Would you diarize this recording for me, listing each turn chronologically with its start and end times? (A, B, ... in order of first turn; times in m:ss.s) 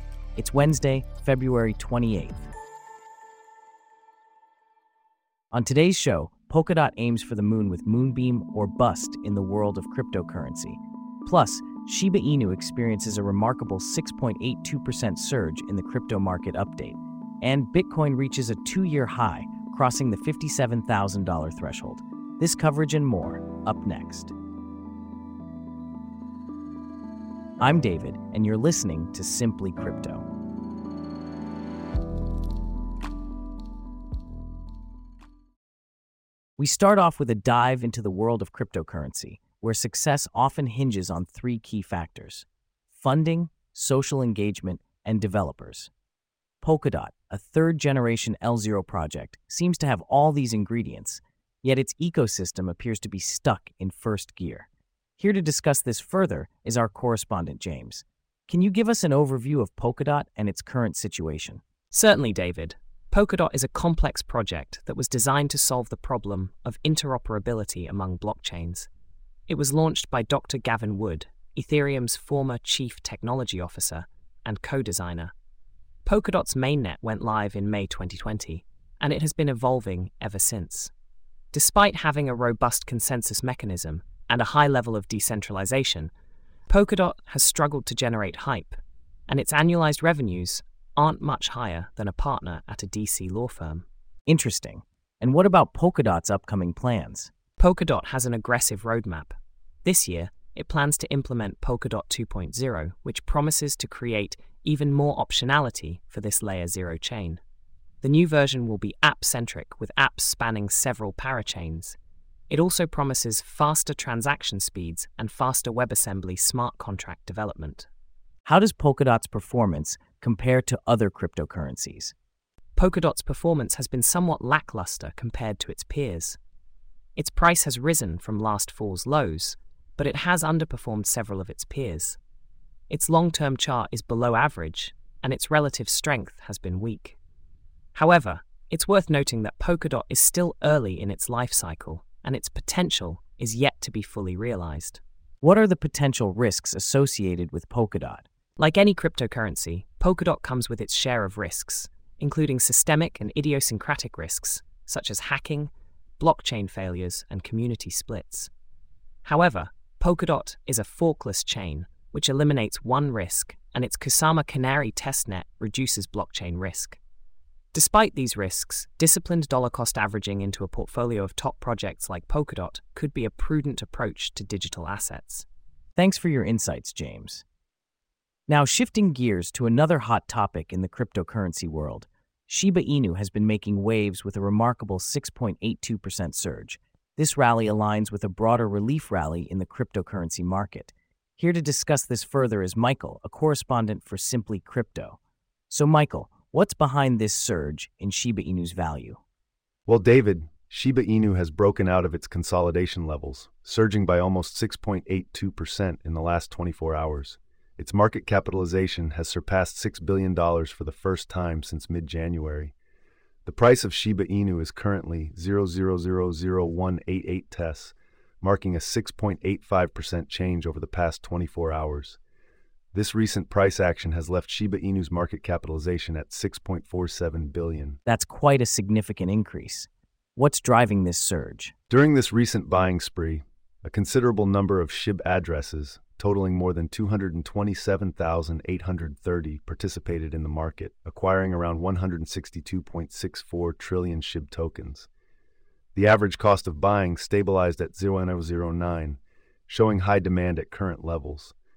0:00.4-0:02.5 A
0:05.5-0:24.3 A
0:27.6-0:30.2 A
0:36.6-0:45.9 A
0:46.6-0:54.7 A
0:55.2-1:01.6 A
1:01.9-1:08.9 B
1:09.5-1:15.3 B
1:16.0-1:20.9 B
1:21.5-1:26.1 B
1:26.7-1:33.8 B
1:34.3-1:37.3 A
1:37.6-1:47.4 B
1:48.0-1:52.0 B
1:52.5-1:57.9 B
1:58.4-2:02.1 A
2:02.8-2:06.4 B
2:07.2-2:12.2 B
2:12.9-2:17.2 B
2:18.0-2:25.0 B
2:25.4-2:28.3 A
2:28.6-2:38.5 B
2:39.2-2:47.0 B
2:47.7-2:55.5 B
2:56.0-2:57.4 A
2:58.5-3:15.2 A
3:15.7-3:19.2 A
3:19.9-3:32.8 C
3:33.4-3:42.2 C
3:42.9-3:48.0 C
3:48.1-3:51.7 A
3:51.9-4:05.1 C
4:06.0-4:11.6 C